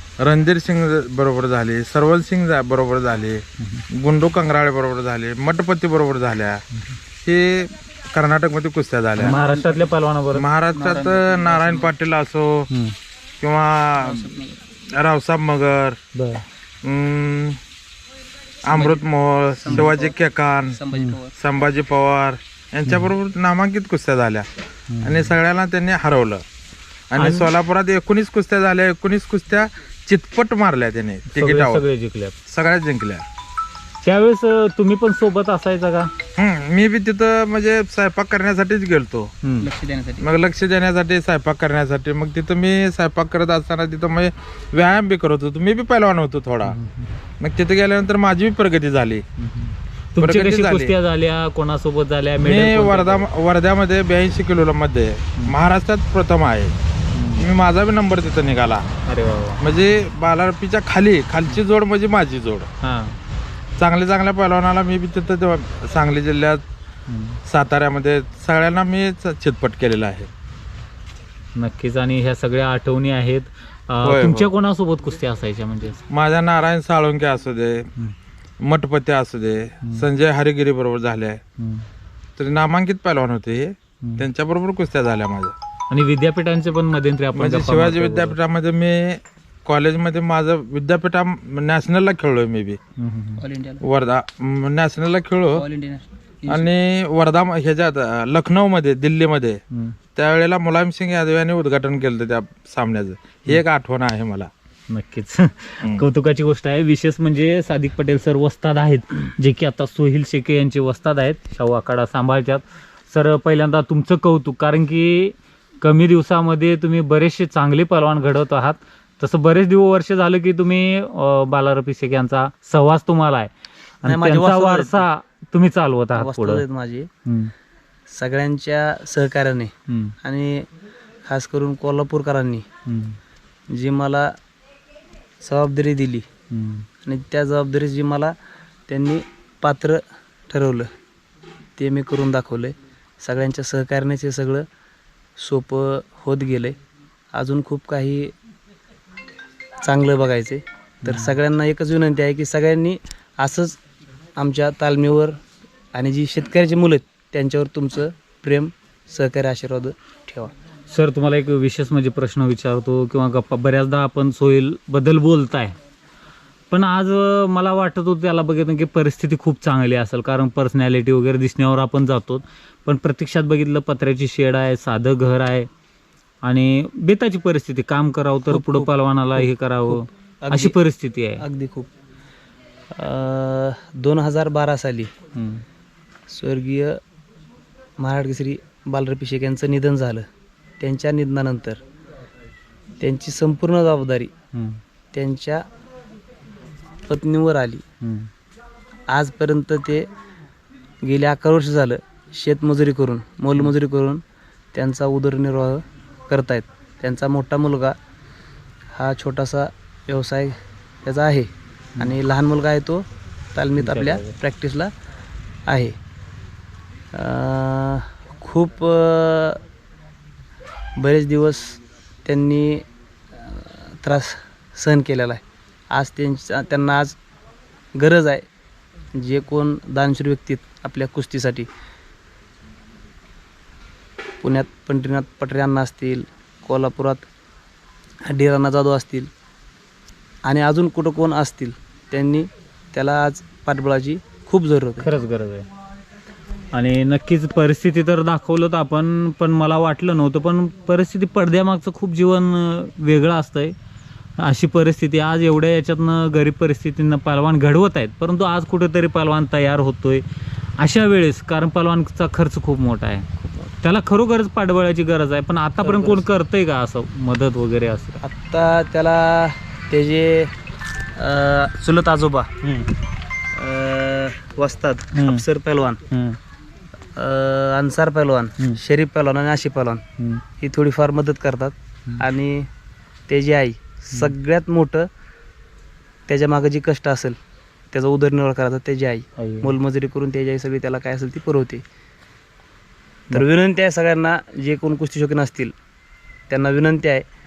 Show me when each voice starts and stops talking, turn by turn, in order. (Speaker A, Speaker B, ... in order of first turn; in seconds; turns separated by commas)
Speaker A: 0.2-6.6, Speaker B: 3.6-3.8, Speaker A: 7.2-9.4, Speaker B: 9.2-10.4, Speaker A: 10.3-12.7, Speaker C: 10.7-11.9, Speaker A: 13.4-16.0, Speaker C: 14.0-14.6, Speaker B: 16.1-16.4, Speaker A: 16.8-17.6, Speaker A: 18.6-24.5, Speaker C: 18.7-19.0, Speaker C: 19.6-20.1, Speaker C: 20.7-21.3, Speaker B: 22.9-23.1, Speaker B: 24.9-25.3, Speaker A: 25.0-26.4, Speaker A: 27.1-31.8, Speaker B: 27.2-27.5, Speaker B: 31.3-32.4, Speaker A: 32.5-33.2, Speaker B: 34.0-36.1, Speaker A: 36.4-39.3, Speaker B: 39.4-39.7, Speaker C: 39.6-40.3, Speaker A: 40.2-46.7, Speaker B: 46.6-47.1, Speaker A: 47.4-49.2, Speaker B: 49.4-53.2, Speaker A: 50.2-50.9, Speaker A: 52.4-56.8, Speaker B: 57.1-57.5, Speaker A: 57.4-58.9, Speaker B: 59.0-59.6, Speaker A: 59.6-62.7, Speaker B: 62.8-63.2, Speaker A: 63.8-66.6, Speaker B: 67.1-67.4, Speaker A: 67.5-70.3, Speaker B: 71.5-76.0, Speaker A: 74.0-74.5, Speaker A: 76.1-77.9, Speaker A: 78.6-81.4, Speaker B: 81.6-81.8, Speaker A: 82.4-85.5, Speaker B: 85.9-88.3, Speaker A: 87.3-92.8, Speaker B: 93.0-93.4, Speaker C: 93.4-93.8, Speaker A: 93.8-95.7, Speaker C: 95.5-96.7, Speaker A: 96.5-99.6, Speaker A: 100.2-104.5, Speaker B: 104.9-123.5, Speaker B: 124.0-126.6, Speaker C: 124.0-125.0, Speaker C: 126.1-127.1, Speaker B: 127.2-127.5, Speaker C: 128.1-130.7, Speaker B: 129.9-130.1, Speaker C: 131.2-132.6, Speaker B: 132.8-133.2, Speaker C: 133.7-134.3, Speaker C: 135.4-136.2, Speaker B: 136.5-136.8, Speaker C: 137.0-138.3, Speaker C: 138.9-140.9, Speaker C: 141.8-144.7, Speaker C: 145.4-146.8, Speaker C: 147.3-148.3, Speaker C: 149.8-153.8, Speaker B: 151.1-151.3, Speaker C: 154.4-155.4, Speaker C: 155.9-160.5, Speaker B: 160.9-165.7, Speaker B: 166.7-175.7, Speaker B: 176.4-181.4, Speaker C: 178.5-180.8, Speaker C: 181.4-181.9, Speaker C: 182.9-185.1, Speaker B: 185.3-185.6, Speaker C: 186.3-187.0, Speaker C: 188.0-190.2, Speaker C: 190.8-191.8, Speaker C: 193.0-194.3, Speaker B: 194.5-194.8, Speaker C: 195.1-195.7, Speaker C: 197.1-197.8, Speaker B: 198.0-198.3, Speaker C: 199.1-200.1, Speaker C: 201.0-204.2, Speaker C: 204.7-207.9, Speaker C: 208.9-214.9, Speaker B: 213.8-214.3, Speaker C: 215.7-215.9, Speaker C: 217.1-219.6, Speaker C: 221.0-227.2, Speaker C: 227.9-228.4, Speaker C: 229.1-231.7, Speaker C: 234.4-237.2, Speaker C: 238.2-239.3, Speaker C: 240.4-245.1, Speaker B: 245.0-245.7, Speaker B: 246.7-253.7, Speaker B: 254.4-260.2, Speaker B: 260.8-263.2, Speaker B: 263.8-268.2, Speaker C: 265.8-266.3, Speaker C: 268.2-270.5, Speaker C: 271.1-272.6, Speaker C: 273.5-276.0, Speaker B: 275.1-275.4, Speaker B: 276.1-276.4, Speaker C: 277.1-280.0, Speaker C: 280.6-282.7, Speaker C: 283.3-285.1, Speaker C: 286.3-287.4, Speaker C: 287.9-291.8, Speaker B: 289.4-289.7, Speaker C: 293.3-295.7, Speaker C: 296.5-297.2